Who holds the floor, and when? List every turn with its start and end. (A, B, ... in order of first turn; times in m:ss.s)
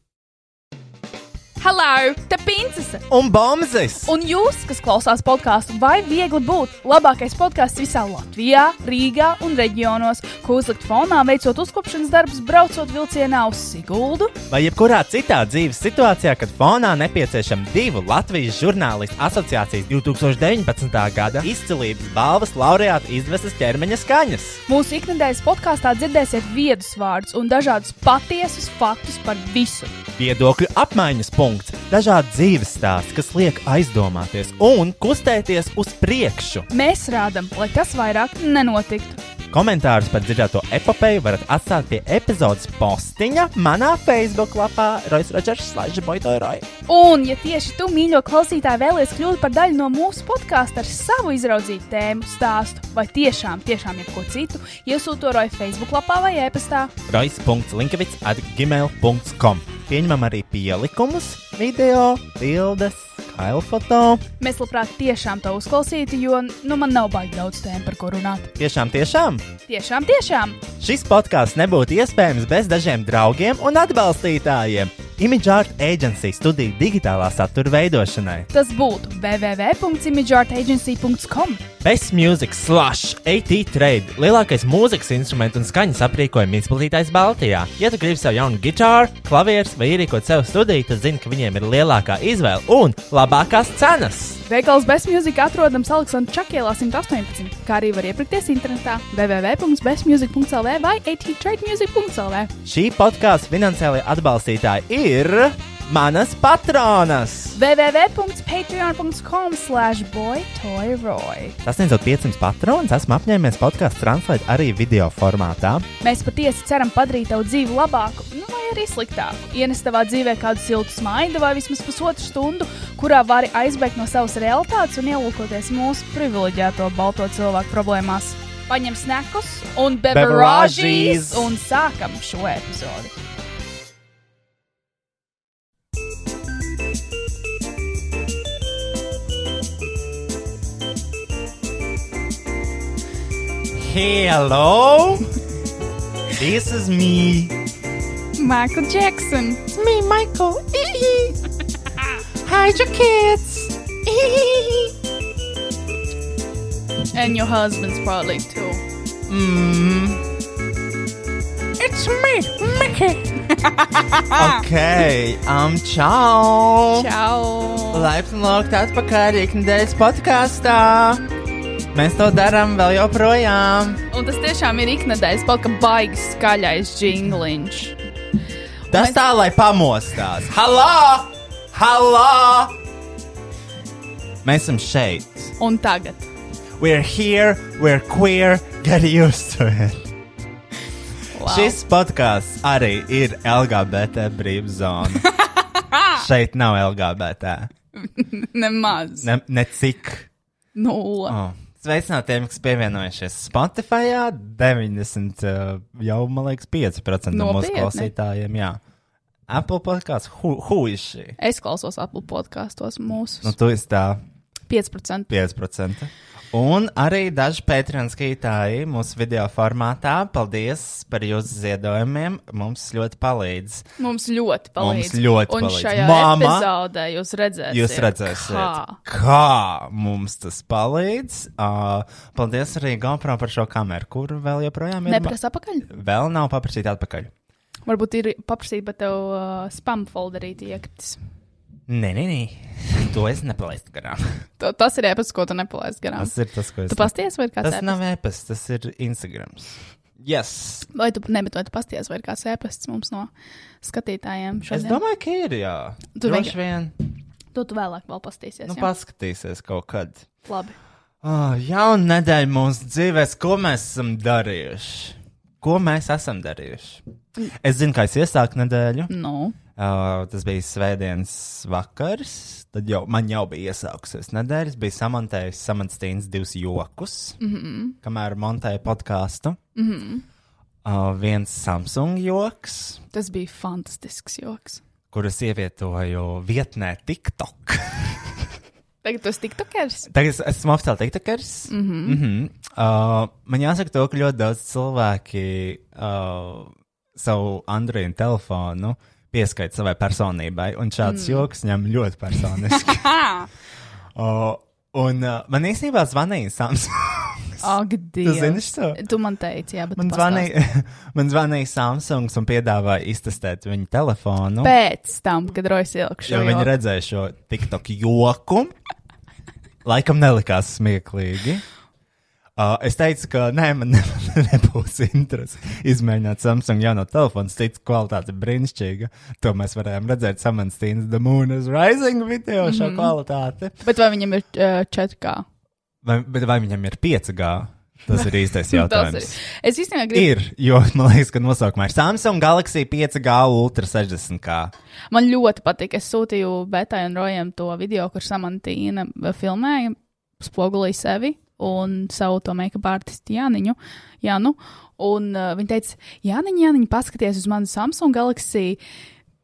0:01.6-0:03.0 A
0:03.1-0:04.1 B
0:04.0-0:14.3 A
0:14.5-0:24.6 B
0:24.7-0:30.0 A
0:30.2-0:36.7 B
0:36.7-0:39.2 A
0:39.5-0:46.7 B
0:46.9-0:56.9 A
0:57.1-1:04.2 B
1:04.4-1:08.5 A
1:08.6-1:09.4 B
1:09.7-1:10.6 A
1:10.8-1:18.5 B
1:18.5-1:21.6 A
1:21.8-1:34.4 B
1:34.4-1:42.5 A
1:42.6-1:47.6 B
1:47.5-1:51.6 A
1:51.6-1:55.9 B
1:56.0-2:13.1 A
2:10.1-2:11.6 B
2:23.7-2:25.3 B
2:26.3-2:27.6 B
2:28.4-2:29.6 A
2:29.7-2:31.4 B
2:32.4-2:34.9 B
2:37.1-2:38.8 A
2:39.3-2:40.2 B
2:41.8-2:43.4 B
2:43.7-2:44.5 A
2:44.3-2:47.1 B
2:46.9-2:48.1 A
2:47.9-2:51.2 B
2:51.9-2:54.0 B
2:54.1-2:58.0 A
2:58.9-3:02.8 B
2:58.9-2:59.2 A
3:04.4-3:05.5 B
3:05.6-3:06.3 A
3:06.8-3:10.1 B
3:11.3-3:11.8 A
3:11.4-3:15.2 B
3:16.2-3:17.7 B
3:18.0-3:19.3 A
3:19.2-3:20.3 B
3:20.7-3:21.4 A
3:21.3-3:28.8 B
3:27.3-3:28.1 A
3:29.5-3:31.4 B
3:31.4-3:33.5 A
3:33.4-3:34.2 B
3:34.7-3:35.3 A
3:35.3-3:43.9 B
3:44.0-3:49.0 A
3:44.8-3:46.7 B
3:47.7-3:55.4 B
3:55.0-3:55.9 A
3:55.9-3:57.3 B
3:57.8-4:01.2 A
4:01.9-4:04.4 B
4:04.6-4:06.3 A
4:06.2-4:10.9 B
4:06.9-4:08.0 A
4:10.9-4:13.3 A
4:13.8-4:15.0 A
4:14.7-4:16.9 B
4:16.2-4:16.6 A
4:17.5-4:18.9 A
4:18.6-4:20.2 B
4:20.4-4:20.8 A
4:21.2-4:27.0 B
4:27.6-4:29.1 B
4:29.1-4:29.6 A
4:29.8-4:37.4 B
4:37.4-4:38.0 A
4:38.0-4:39.6 B
4:39.8-4:40.2 A
4:40.8-4:43.0 B
4:43.1-4:44.8 A
4:45.1-4:48.2 B
4:49.0-4:50.1 A
4:50.1-5:03.2 B
4:51.7-4:52.2 A
5:01.0-5:01.5 A
5:02.9-5:03.5 A
5:04.1-5:09.0 B
5:07.6-5:10.5 A
5:09.9-5:14.8 B
5:14.6-5:16.7 A
5:16.2-5:18.7 B
5:19.8-5:21.6 B
5:22.6-5:33.8 B
5:32.6-5:33.1 A
5:33.8-5:35.4 A
5:36.0-5:39.4 B
5:38.2-5:40.3 A
5:40.1-5:44.7 B
5:45.1-5:58.8 A